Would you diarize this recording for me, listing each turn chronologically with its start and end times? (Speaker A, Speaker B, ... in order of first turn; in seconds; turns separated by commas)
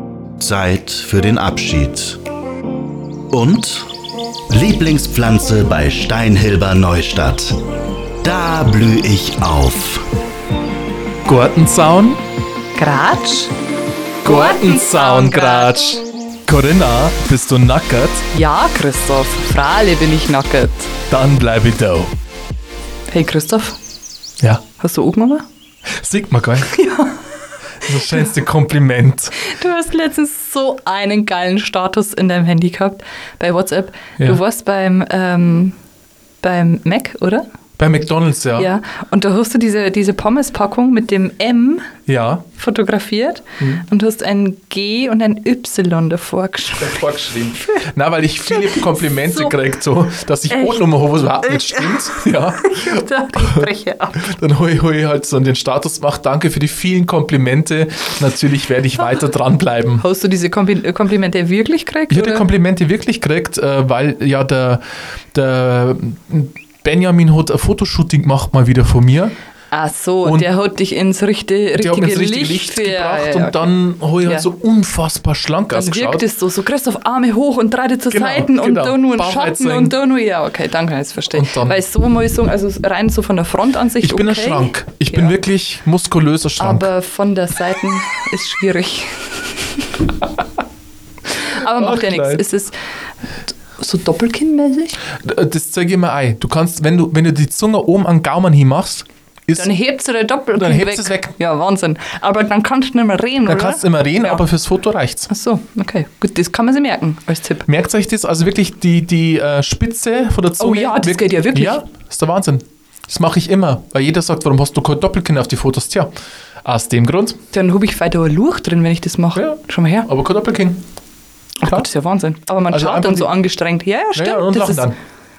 Speaker A: 0.4-2.2, Speaker A: 3.3-3.9, Speaker A: 4.5-7.6, Speaker A: 8.2-10.1, Speaker B: 11.2-12.2, Speaker C: 12.8-13.5, Speaker B: 14.2-18.3, Speaker C: 14.2-15.9, Speaker C: 18.3-20.9, Speaker B: 21.1-22.1, Speaker C: 23.1-23.8, Speaker C: 24.8-25.4, Speaker B: 26.0-26.8, Speaker C: 26.7-27.2, Speaker B: 27.9-29.5, Speaker C: 29.4-35.8, Speaker C: 36.4-37.4, Speaker B: 37.8-38.7, Speaker C: 38.5-41.9, Speaker B: 42.1-42.5, Speaker C: 42.5-47.9, Speaker B: 43.6-43.9, Speaker B: 46.8-53.7, Speaker C: 48.5-49.6, Speaker C: 50.5-54.3, Speaker B: 54.2-60.0, Speaker C: 60.0-62.5, Speaker B: 62.1-64.8, Speaker B: 65.3-69.3, Speaker C: 69.7-73.7, Speaker B: 71.7-76.2, Speaker C: 74.2-74.5, Speaker C: 75.7-85.4, Speaker B: 78.1-80.0, Speaker B: 81.3-81.8, Speaker B: 84.0-86.9, Speaker C: 86.6-90.1, Speaker C: 91.3-92.8, Speaker B: 91.6-92.4, Speaker C: 93.5-95.0, Speaker B: 95.2-99.7, Speaker C: 99.6-104.4, Speaker B: 100.6-101.3, Speaker B: 103.5-105.3, Speaker C: 105.3-107.7, Speaker B: 107.7-116.1, Speaker C: 110.6-111.8, Speaker B: 116.7-117.4, Speaker C: 117.5-120.1, Speaker B: 119.3-120.8, Speaker C: 121.6-124.9, Speaker B: 122.7-123.4, Speaker B: 124.2-125.0